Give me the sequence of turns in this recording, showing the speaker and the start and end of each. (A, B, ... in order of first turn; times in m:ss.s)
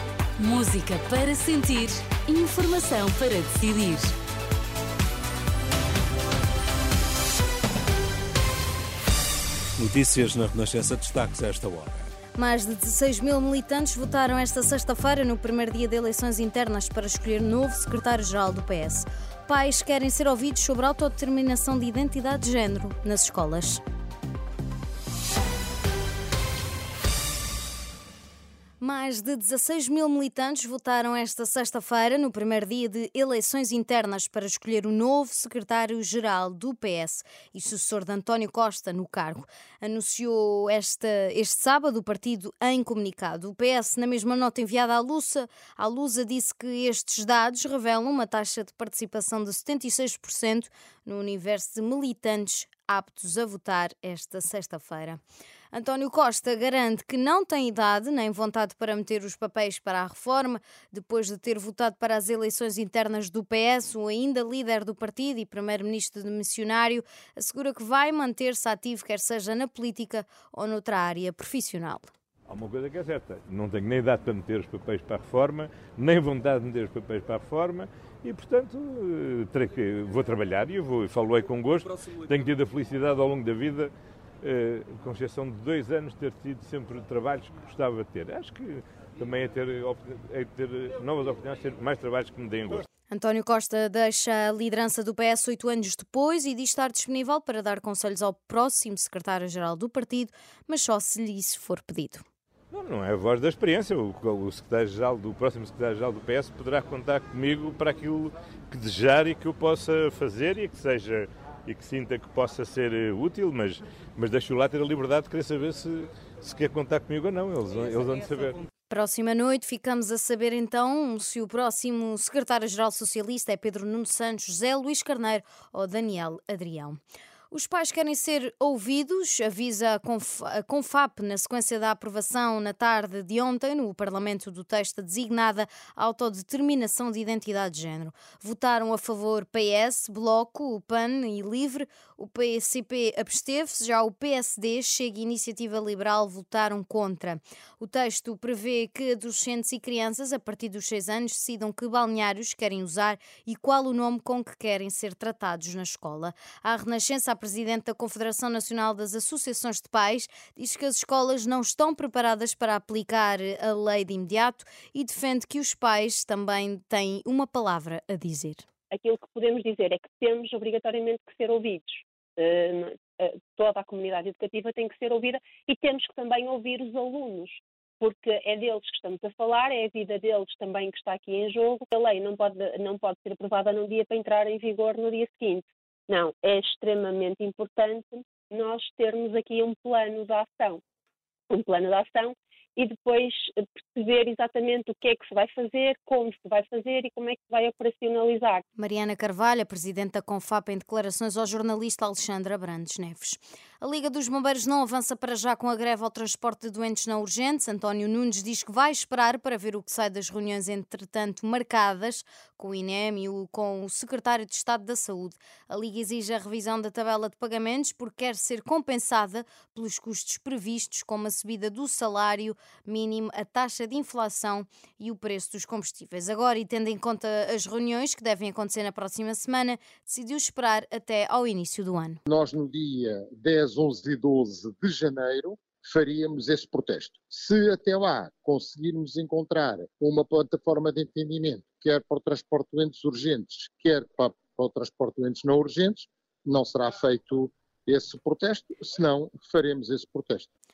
0:00.4-0:04.1 A
0:09.8-0:12.0 B
0:12.4-0:23.8 C
0:28.8-0:55.2 C
0:55.7-1:12.1 C
1:12.5-1:23.9 D
1:24.4-1:32.9 D
1:33.1-1:42.2 C
1:42.7-1:58.6 D
1:58.9-2:07.0 C
2:07.5-2:48.6 C
2:48.9-3:10.8 E
3:11.5-3:18.6 E
3:18.8-3:52.2 C
3:52.3-4:10.5 F